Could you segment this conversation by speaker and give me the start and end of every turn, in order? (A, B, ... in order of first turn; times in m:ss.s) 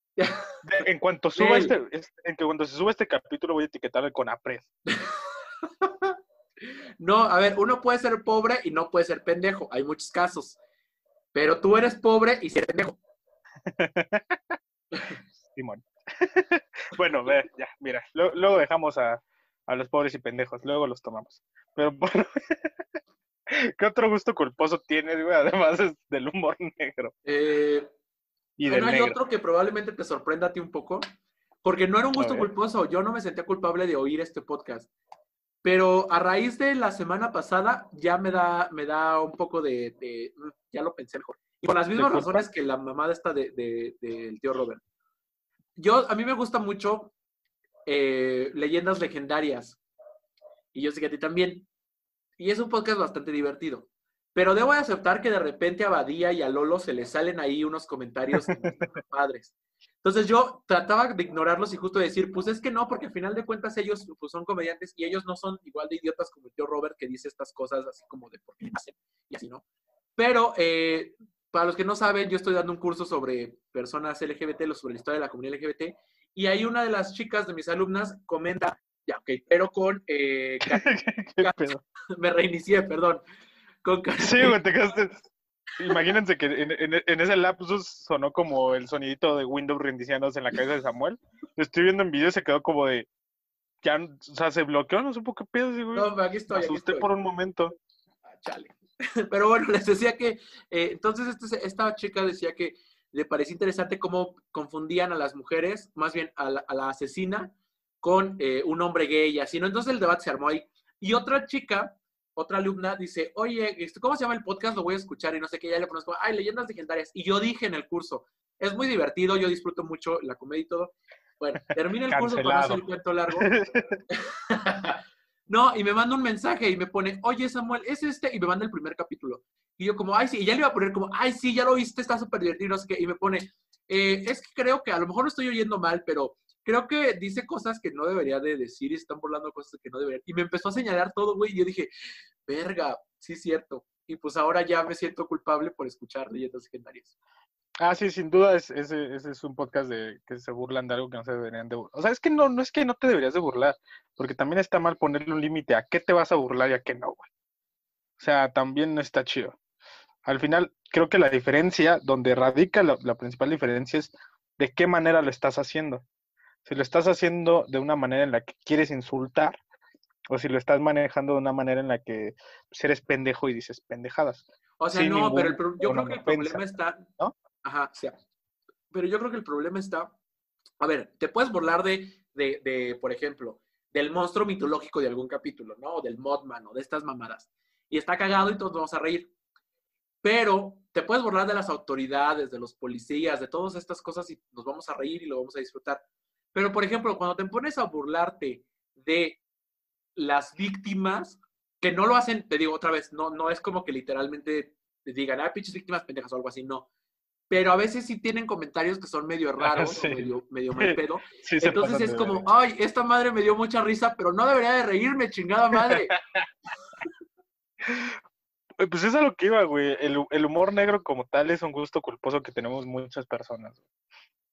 0:00.2-0:00.5 A
0:00.6-0:04.7 B
0:01.4-0:01.7 A
0:04.9-0:05.2 A
0:05.8-0:06.1 A
0:07.0-0:10.6 A
0:11.3-0:13.0 A
0:13.7-0:14.6 B
0:15.5-0:22.7 B
0:23.5-0:27.1 B
0:27.2-0:27.9 A
0:28.6-0:29.2 B
0:28.7-0:31.0 A
0:31.6-0:34.9 A
0:32.2-0:32.5 B
0:35.6-0:44.8 A
0:41.6-0:42.4 B
0:45.8-0:47.1 A
0:47.9-0:49.8 A
0:50.7-0:51.7 A
0:52.4-1:09.6 A
1:10.2-1:23.2 A
1:20.8-1:21.8 B
1:23.8-1:24.6 A
1:24.2-1:33.1 B
1:33.8-1:37.7 B
1:35.9-1:37.1 A
1:38.4-1:38.7 A
1:39.3-2:03.5 A
2:02.1-2:02.8 B
2:03.4-2:04.0 B
2:04.1-2:21.9 A
2:22.4-2:27.1 A
2:27.8-2:37.3 B
2:38.2-2:39.6 B
2:40.2-2:46.0 B
2:46.6-2:49.6 B
2:50.3-2:56.7 B
2:54.8-2:57.1 A
2:57.6-2:58.2 A
2:58.9-3:00.1 A
3:00.8-3:09.3 A
3:10.2-3:16.0 A
3:16.5-3:19.4 A
3:20.2-3:26.9 A
3:27.5-3:36.2 A
3:29.6-3:32.4 B
3:35.7-3:36.5 B
3:37.8-3:38.2 B
3:38.8-3:43.8 B